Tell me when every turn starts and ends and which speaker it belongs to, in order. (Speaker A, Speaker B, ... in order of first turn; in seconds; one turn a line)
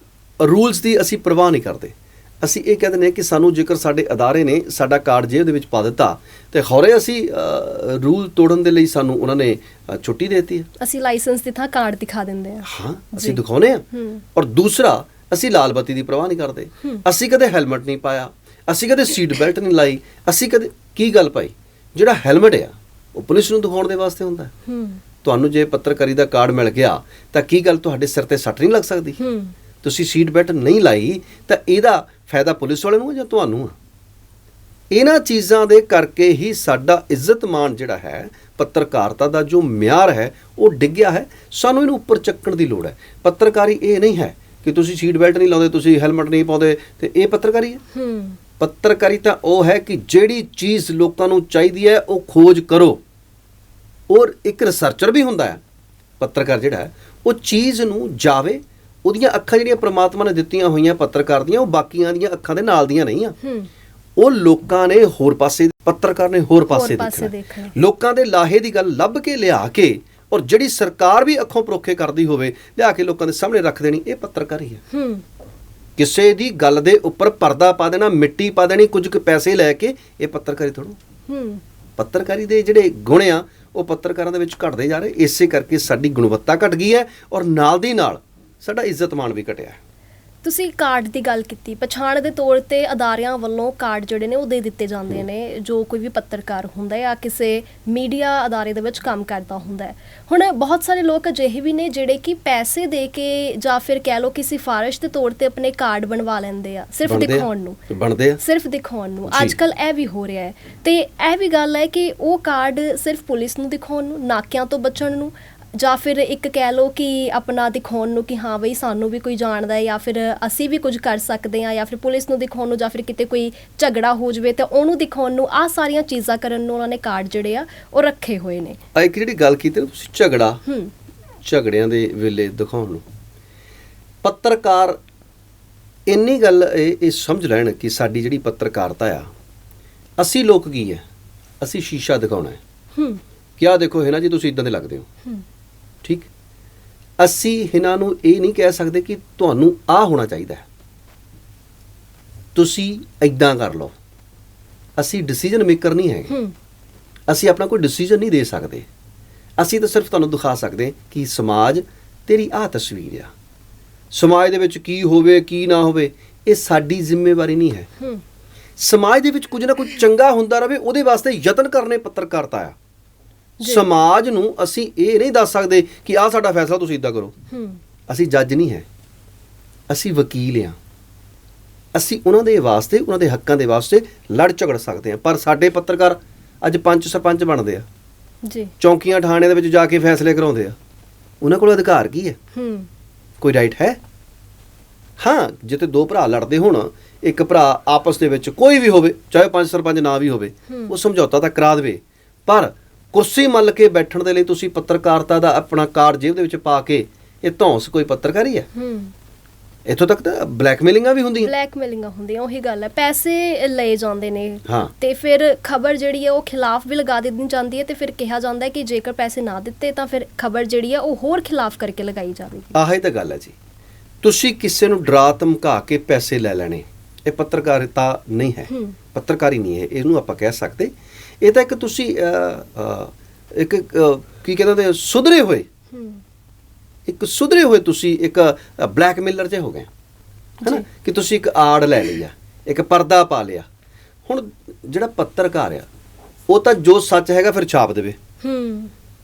Speaker A: 0.4-10.7
Speaker B: 10.8-13.4
Speaker A: 12.6-24.5
Speaker B: 13.9-14.2
Speaker B: 24.6-25.0
Speaker A: 25.2-29.2
Speaker B: 29.2-29.5
Speaker A: 29.8-33.7
Speaker A: 34.9-47.8
Speaker B: 47.9-48.4
Speaker A: 48.6-53.0
Speaker A: 54.1-55.6
Speaker A: 56.2-63.4
Speaker B: 63.4-63.7
Speaker A: 64.2-74.8
Speaker B: 66.7-67.7
Speaker B: 74.9-75.2
Speaker A: 76.0-81.0
Speaker B: 81.3-81.6
Speaker A: 82.0-89.8
Speaker B: 90.4-107.8
Speaker A: 107.0-108.4
Speaker B: 108.4-128.8
Speaker A: 109.3-109.6
Speaker A: 128.9-130.6
Speaker B: 130.7-130.9
Speaker A: 131.4-133.0
Speaker A: 134.2-135.0
Speaker A: 136.1-139.3
Speaker A: 140.2-141.0
Speaker A: 141.6-142.6
Speaker B: 142.9-143.2
Speaker A: 143.6-145.1
Speaker A: 146.0-146.3
Speaker A: 147.2-150.6
Speaker A: 152.5-153.9
Speaker A: 155.0-156.3
Speaker B: 156.3-156.5
Speaker A: 157.3-158.9
Speaker A: 159.6-163.3
Speaker A: 164.1-167.9
Speaker A: 168.8-172.7
Speaker B: 173.6-173.8
Speaker A: 173.6-177.3
Speaker B: 177.5-177.8
Speaker A: 178.1-178.8
Speaker A: 179.9-180.8
Speaker A: 181.9-187.8
Speaker B: 188.4-188.7
Speaker A: 188.8-190.8
Speaker A: 191.4-192.4
Speaker B: 192.5-192.9
Speaker A: 193.4-194.0
Speaker A: 195.2-208.7
Speaker B: 200.7-200.9
Speaker B: 208.7-209.1
Speaker A: 209.8-211.5
Speaker B: 211.4-222.7
Speaker A: 214.7-214.9
Speaker A: 222.7-223.5
Speaker A: 224.2-235.7
Speaker B: 228.7-228.9
Speaker B: 235.9-236.2
Speaker A: 237.1-239.9
Speaker B: 240.6-240.8
Speaker A: 240.6-243.7
Speaker A: 244.2-245.9
Speaker A: 246.5-248.2
Speaker B: 248.4-248.9